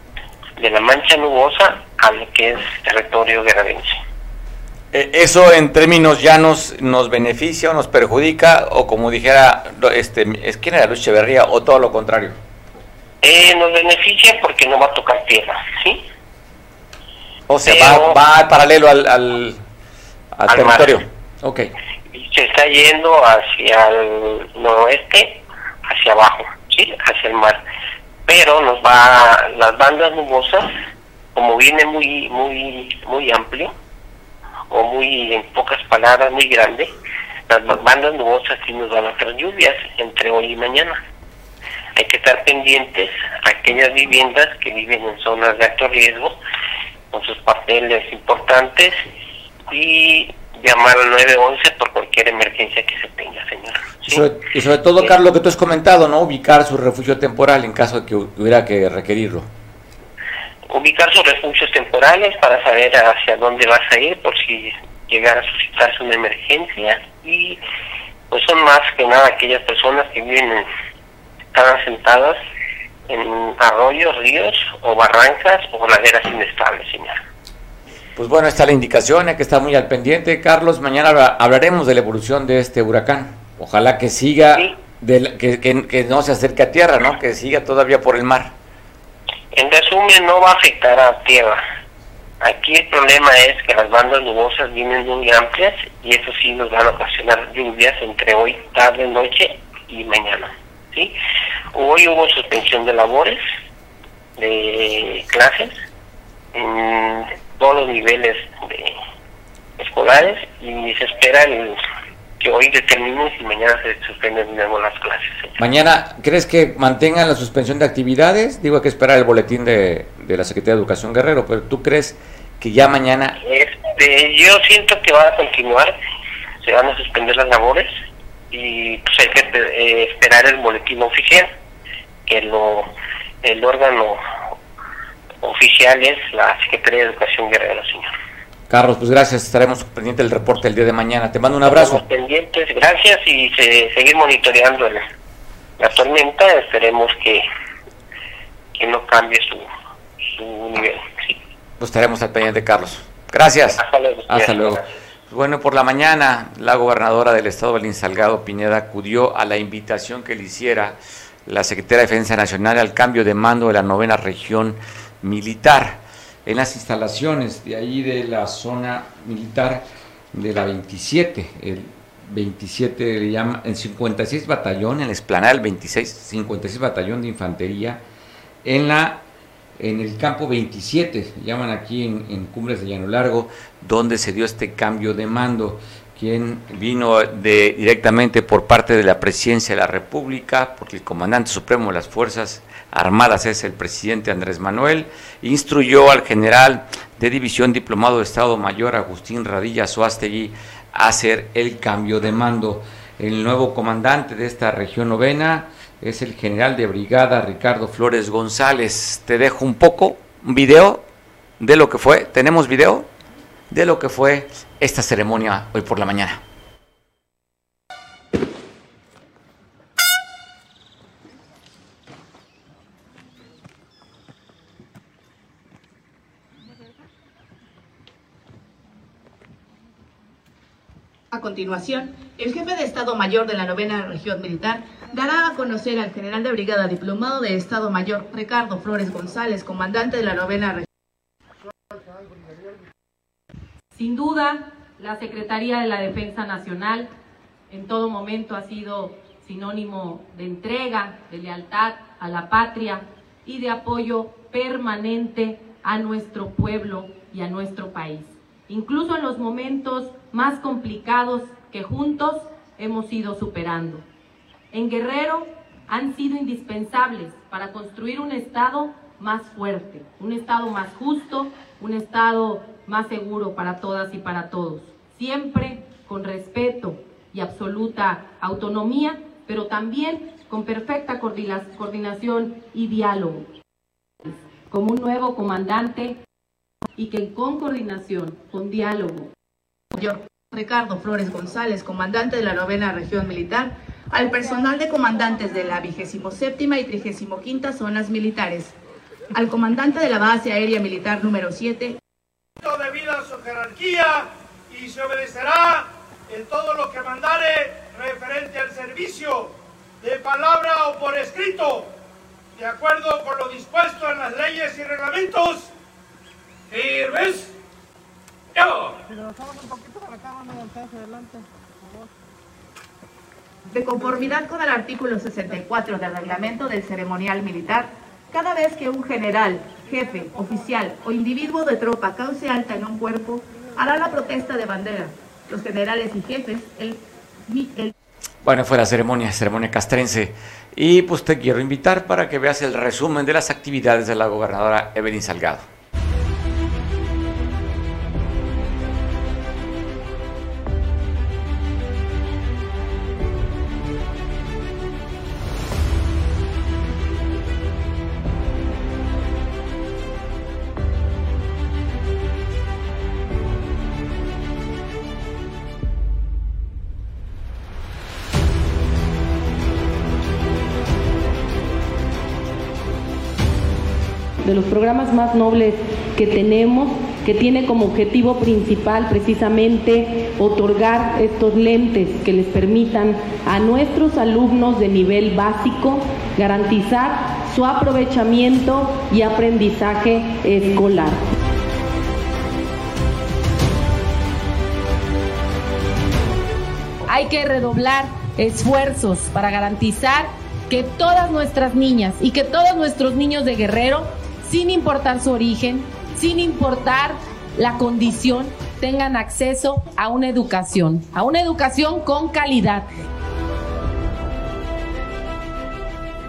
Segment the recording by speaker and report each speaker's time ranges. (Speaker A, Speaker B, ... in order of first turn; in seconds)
Speaker A: 0.6-4.0, 13.2-16.0, 17.6-18.2, 20.5-21.0, 22.1-27.6, 28.2-30.7, 31.3-33.7, 34.7-36.9, 37.5-41.0, 42.0-46.4, 47.1-49.0, 49.7-54.3, 60.7-67.6, 68.3-70.7, 71.5-72.4, 73.1-77.2, 89.5-91.6, 92.4-101.1, 101.7-103.4, 104.4-105.7, 106.5-109.0, 109.8-111.8, 112.4-115.6, 123.4-126.0, 126.6-127.9, 128.5-131.5, 132.2-132.9, 133.4-134.2, 135.4-138.1, 141.7-145.0, 145.8-147.4, 148.7-149.7, 150.3-151.3, 153.7-154.9
Speaker B: 4.9-12.4, 17.5-19.6, 20.3-21.7, 54.0-59.5, 78.2-88.5, 115.6-123.4, 138.7-142.0, 151.8-178.0, 178.6-179.2, 179.8-211.0, 211.6-213.1, 213.7-216.4, 338.4-345.7
Speaker C: 231.3-240.8, 289.9-298.7, 299.3-302.0, 323.7-337.9
Speaker D: 243.9-247.1, 247.7-264.0, 264.7-283.5, 284.2-286.2, 286.9-289.3, 374.4-391.2, 397.1-412.9
Speaker E: 302.6-311.9, 312.6-315.7, 316.7-317.5, 318.5-319.0